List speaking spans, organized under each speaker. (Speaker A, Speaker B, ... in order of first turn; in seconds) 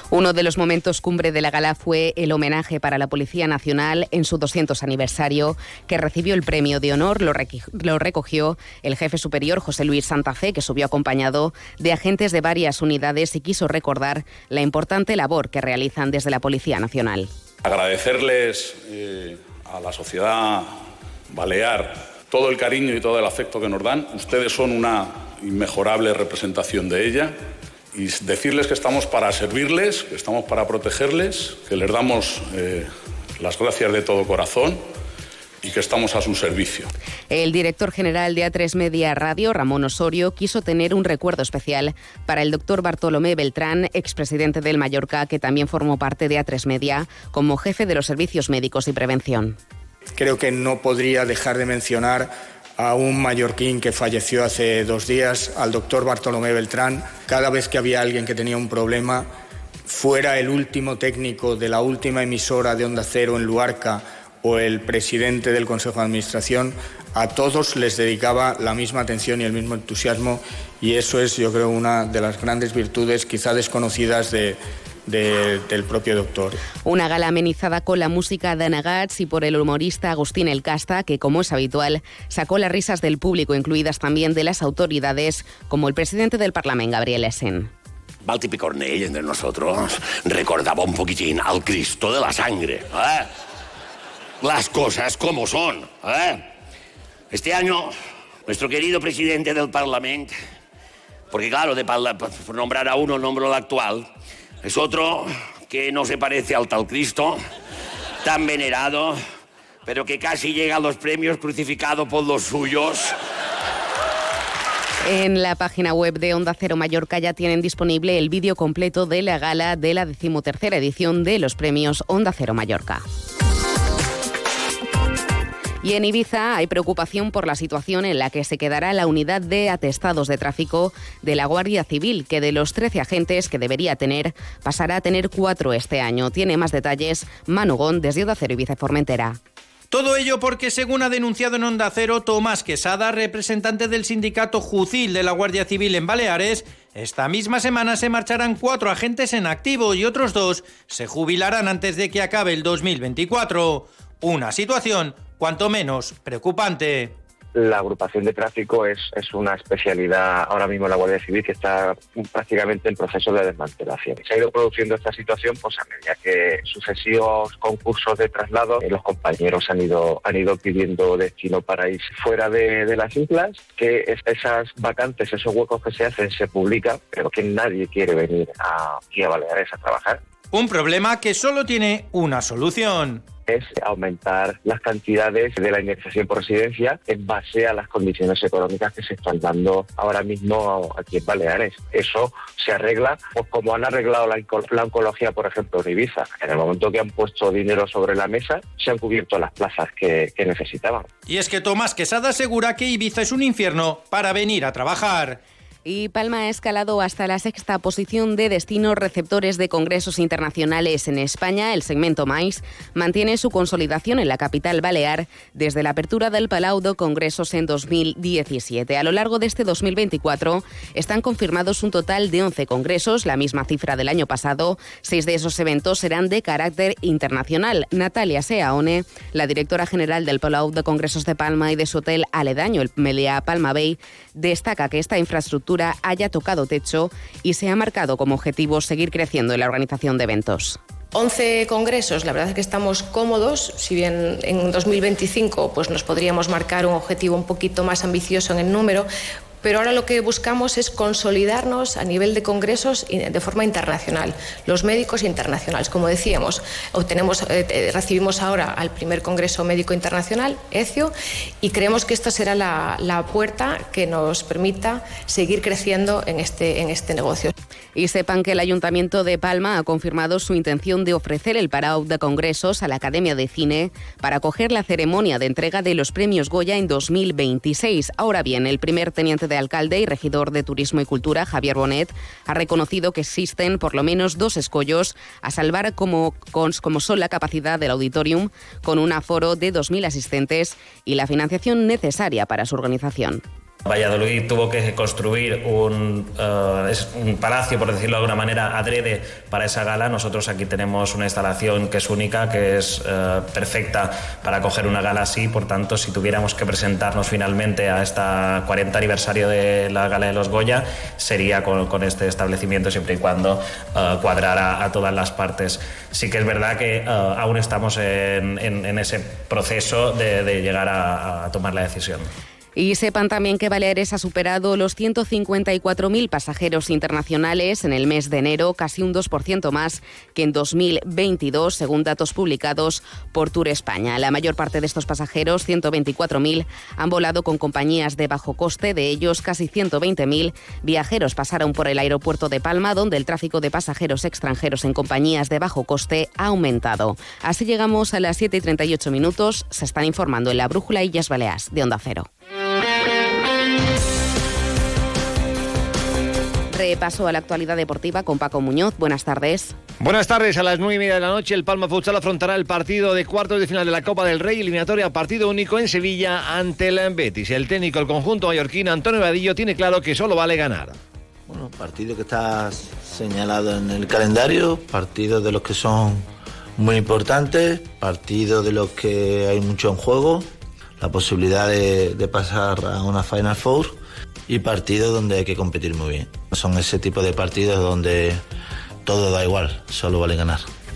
Speaker A: 0.1-17.3, 37.3-49.6, 76.8-87.7, 115.0-123.0, 125.8-139.4, 205.8-240.8, 267.9-293.4, 322.8-352.3, 356.7-359.8
Speaker B: 17.6-20.7, 21.3-27.3, 27.9-34.8, 35.6-36.9
Speaker C: 50.1-59.2, 59.9-76.5
Speaker D: 88.2-93.3, 94.4-96.4, 97.3-97.9, 98.5-100.3, 101.3-104.1, 104.6-107.4, 108.2-109.2, 109.8-113.1
Speaker E: 139.9-157.1, 180.5-183.2, 201.3-205.4
Speaker F: 157.5-180.2, 183.5-201.1
Speaker G: 241.1-249.1, 249.6-261.1, 261.6-267.5
Speaker H: 293.9-322.3
Speaker I: 360.0-371.0
Speaker J: 371.5-376.2, 376.8-380.4, 381.0-388.4, 389.1-390.6